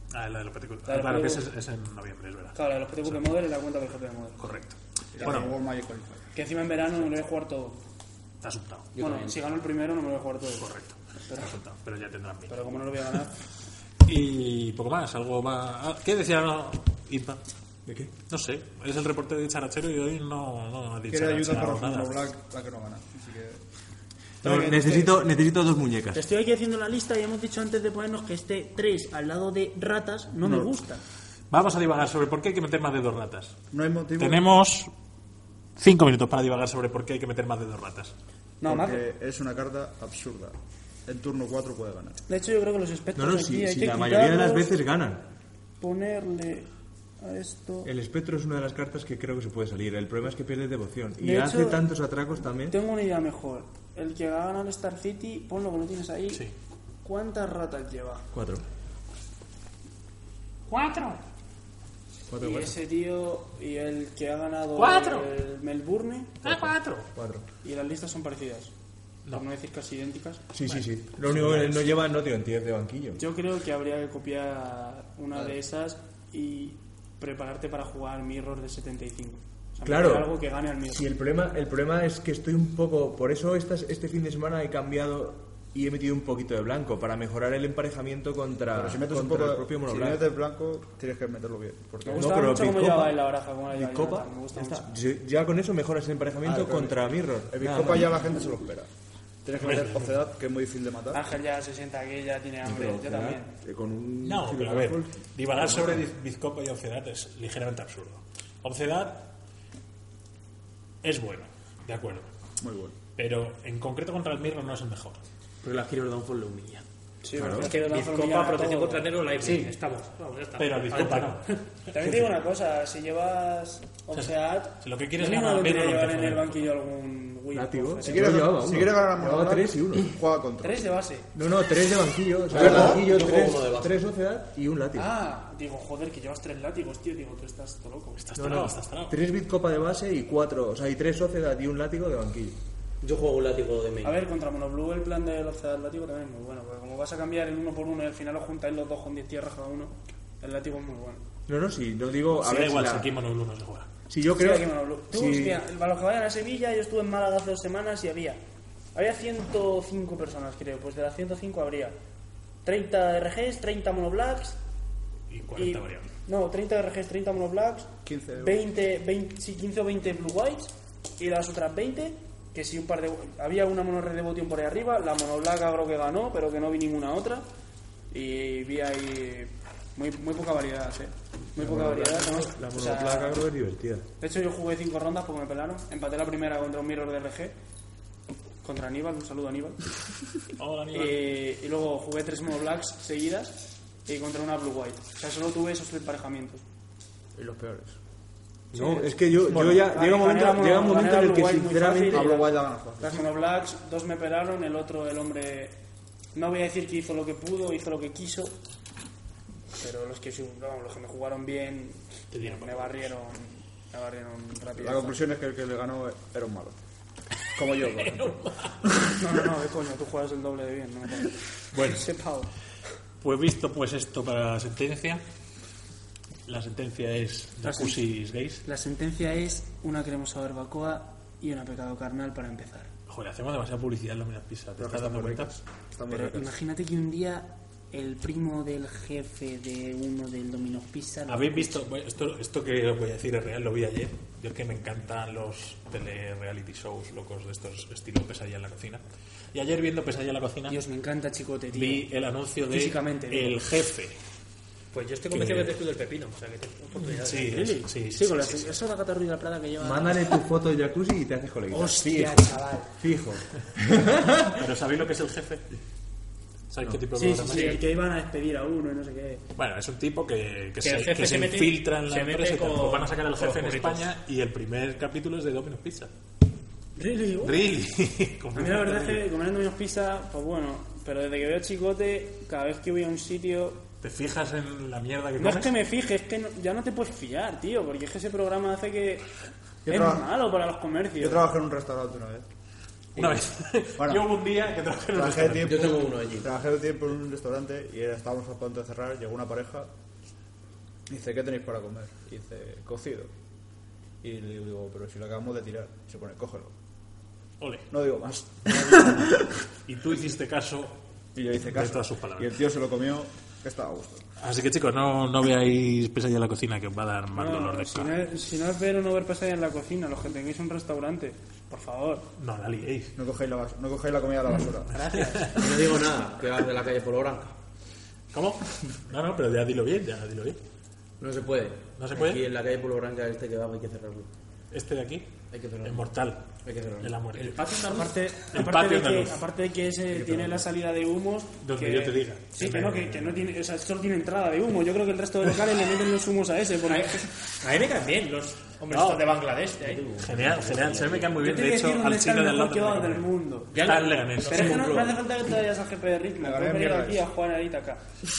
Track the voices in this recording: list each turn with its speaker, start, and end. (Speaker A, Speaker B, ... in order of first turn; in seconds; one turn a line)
Speaker A: 0.1-3.4
Speaker B: 0.8-1.5
Speaker B: 2.5-4.6
Speaker A: 4.4-5.5
Speaker C: 5.1-6.2
Speaker B: 5.2-5.5
Speaker B: 6.3-7.8
Speaker A: 8.4-8.9
Speaker D: 8.9-9.3
Speaker B: 8.9-10.7
Speaker A: 10.6-12.6
Speaker B: 11.3-11.6
Speaker B: 12.5-13.3
Speaker A: 14.0-17.4
Speaker E: 17.9-18.1
Speaker A: 18.3-22.1
Speaker C: 21.1-23.6
Speaker B: 24.4-25.3
Speaker E: 24.4-26.2
Speaker B: 26.1-31.0
Speaker C: 30.4-30.7
Speaker A: 31.5-33.6
Speaker C: 33.7-34.5
Speaker A: 34.2-34.9
Speaker A: 35.8-38.1
Speaker B: 38.6-39.0
Speaker C: 38.6-40.5
Speaker C: 41.1-42.2
Speaker B: 42.3-44.7
Speaker E: 43.1-45.2
Speaker B: 45.8-46.7
Speaker B: 47.2-47.9
Speaker E: 47.8-52.8
Speaker B: 51.2-51.8
Speaker B: 52.7-56.4
Speaker B: 57.0-58.3
Speaker E: 58.3-58.6
Speaker A: 60.7-61.2
Speaker E: 62.3-62.7
Speaker B: 62.4-66.5
Speaker A: 64.8-65.3
Speaker A: 66.4-67.1
Speaker E: 66.4-67.5
Speaker B: 67.6-68.7
Speaker B: 69.3-70.4
Speaker E: 70.5-73.2
Speaker A: 70.6-72.0
Speaker B: 73.2-81.0
Speaker E: 79.8-80.4
Speaker E: 80.9-90.2
Speaker C: 88.7-92.3
Speaker B: 92.0-94.9
Speaker E: 92.2-98.2
Speaker C: 96.4-98.9
Speaker C: 99.4-101.2
Speaker A: 99.6-100.3
Speaker B: 101.1-103.5
Speaker E: 102.6-106.0
Speaker A: 104.2-109.3
Speaker A: 111.0-112.3
Speaker C: 112.6-112.9
Speaker A: 113.2-115.2
Speaker D: 115.6-116.8
Speaker B: 117.2-119.7
Speaker E: 117.3-117.7
Speaker F: 117.5-121.6
Speaker A: 120.6-122.3
Speaker B: 121.9-128.4
Speaker A: 124.1-126.7
Speaker E: 127.5-130.1
Speaker C: 128.0-130.8
Speaker B: 130.6-131.3
Speaker E: 131.3-135.1
Speaker D: 132.5-133.9
Speaker B: 134.9-138.6
Speaker A: 138.2-139.2
Speaker E: 138.3-142.6
Speaker D: 143.0-144.2
Speaker B: 144.0-151.2
Speaker E: 151.5-153.1
Speaker A: 152.4-153.9
Speaker E: 154.1-155.6
Speaker B: 154.3-158.4
Speaker B: 158.9-161.9
Speaker B: 162.6-164.6
Speaker A: 165.3-166.1
Speaker B: 165.5-177.4
Speaker C: 168.0-168.6
Speaker B: 178.1-183.4
Speaker E: 181.5-184.0
Speaker B: 184.2-187.5
Speaker B: 188.6-189.8
Speaker A: 190.6-191.3
Speaker B: 190.9-196.6
Speaker C: 197.3-198.0
Speaker E: 198.7-202.3
Speaker B: 198.7-205.7
Speaker C: 199.5-199.8
Speaker C: 202.1-203.2
Speaker B: 206.3-208.6
Speaker B: 209.8-215.2
Speaker A: 212.4-212.8
Speaker C: 214.8-216.8
Speaker C: 217.5-218.4
Speaker A: 217.8-218.8
Speaker B: 219.1-222.5
Speaker A: 221.7-222.1
Speaker A: 223.2-225.2
Speaker A: 226.4-228.6
Speaker B: 227.6-228.0
Speaker B: 228.6-232.9
Speaker A: 233.1-235.5
Speaker C: 234.8-236.5
Speaker B: 236.1-241.9
Speaker A: 241.3-249.0
Speaker A: 249.5-250.8
Speaker B: 250.7-252.1
Speaker A: 251.7-254.1
Speaker B: 252.7-253.6
Speaker F: 254.9-257.8
Speaker A: 255.3-255.8
Speaker A: 257.0-258.8
Speaker B: 257.5-260.4
Speaker E: 259.8-264.6
Speaker B: 261.7-262.9
Speaker A: 264.5-265.7
Speaker A: 266.7-267.8
Speaker B: 267.1-269.4
Speaker A: 269.6-276.1
Speaker F: 270.8-274.1
Speaker B: 276.9-277.7
Speaker A: 277.4-279.3
Speaker B: 278.5-283.8
Speaker A: 284.0-285.8
Speaker B: 285.4-289.3
Speaker C: 289.9-290.3
Speaker B: 289.9-291.5
Speaker C: 291.2-292.4
Speaker A: 293.1-296.0
Speaker C: 294.0-294.3
Speaker C: 295.1-299.9
Speaker D: 295.6-296.5
Speaker C: 301.1-303.3
Speaker C: 304.2-306.7
Speaker A: 307.6-307.9
Speaker C: 307.9-309.5
Speaker A: 309.9-312.6
Speaker C: 311.3-314.2
Speaker A: 314.4-318.1
Speaker B: 317.3-322.3
Speaker A: 322.4-323.2
Speaker C: 323.2-325.1
Speaker B: 324.9-325.6
Speaker A: 325.0-325.8
Speaker D: 325.5-327.5
Speaker A: 328.3-330.6
Speaker D: 331.2-334.3
Speaker A: 331.9-332.4
Speaker A: 334.7-335.3
Speaker D: 335.5-336.1
Speaker A: 335.8-336.4
Speaker D: 336.6-337.2
Speaker A: 337.0-337.7
Speaker F: 337.3-338.1
Speaker B: 337.9-347.3
Speaker A: 338.5-339.4
Speaker A: 341.6-343.4
Speaker F: 346.8-350.1
Speaker A: 348.9-349.2
Speaker D: 349.8-351.4
Speaker A: 350.2-354.9
Speaker B: 351.4-353.8
Speaker F: 353.7-355.1
Speaker B: 354.4-358.0
Speaker D: 354.6-355.1
Speaker C: 356.4-357.3